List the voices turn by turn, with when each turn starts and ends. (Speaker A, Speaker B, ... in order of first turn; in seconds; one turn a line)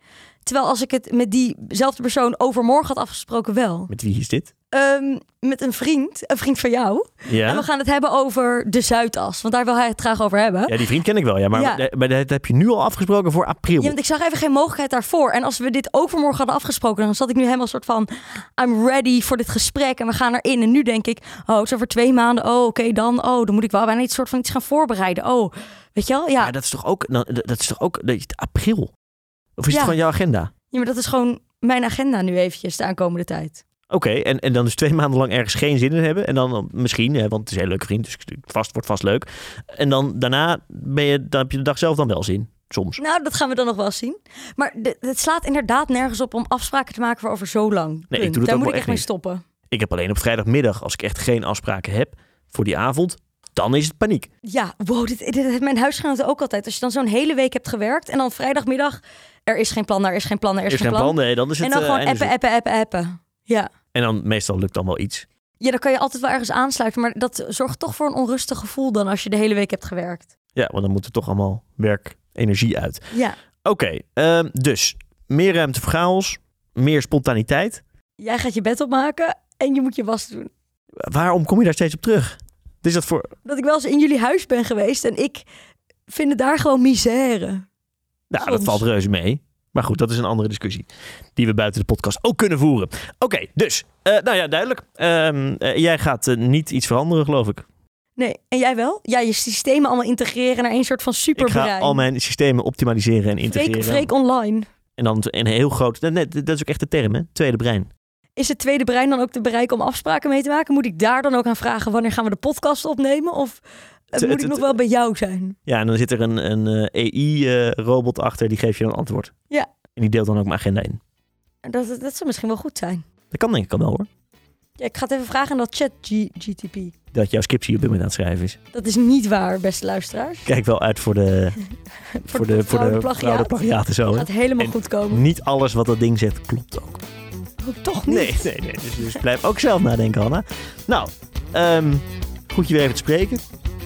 Speaker A: 0.5-3.9
Speaker B: 3.9-4.5
Speaker A: 4.7-10.8
Speaker B: 7.3-7.7
Speaker B: 10.7-14.0
Speaker A: 11.5-11.8
Speaker A: 13.8-26.5
Speaker B: 26.4-28.9
Speaker B: 29.6-30.5
Speaker A: 29.7-30.0
Speaker A: 30.7-33.6
Speaker B: 33.9-43.0
Speaker A: 43.0-49.4
Speaker B: 48.1-49.1
Speaker B: 49.7-54.3
Speaker A: 54.5-63.7
Speaker B: 60.7-62.3
Speaker B: 63.9-65.3
Speaker A: 65.6-70.3
Speaker B: 70.6-73.0
Speaker A: 73.1-73.4
Speaker B: 73.6-77.8
Speaker A: 78.2-80.5
Speaker B: 81.0-83.3
Speaker A: 83.5-85.5
Speaker A: 86.1-87.7
Speaker B: 88.3-97.7
Speaker A: 88.4-88.8
Speaker A: 98.2-102.0
Speaker B: 101.4-104.1
Speaker A: 103.5-104.7
Speaker B: 105.0-107.9
Speaker A: 108.4-115.6
Speaker B: 114.2-114.8
Speaker B: 115.7-119.3
Speaker B: 120.0-121.0
Speaker A: 121.7-123.0
Speaker B: 123.3-124.1
Speaker A: 124.8-126.9
Speaker B: 127.1-128.6
Speaker A: 128.7-130.5
Speaker B: 130.5-131.6
Speaker A: 132.1-135.2
Speaker B: 132.3-137.0
Speaker A: 137.6-138.5
Speaker B: 138.1-143.4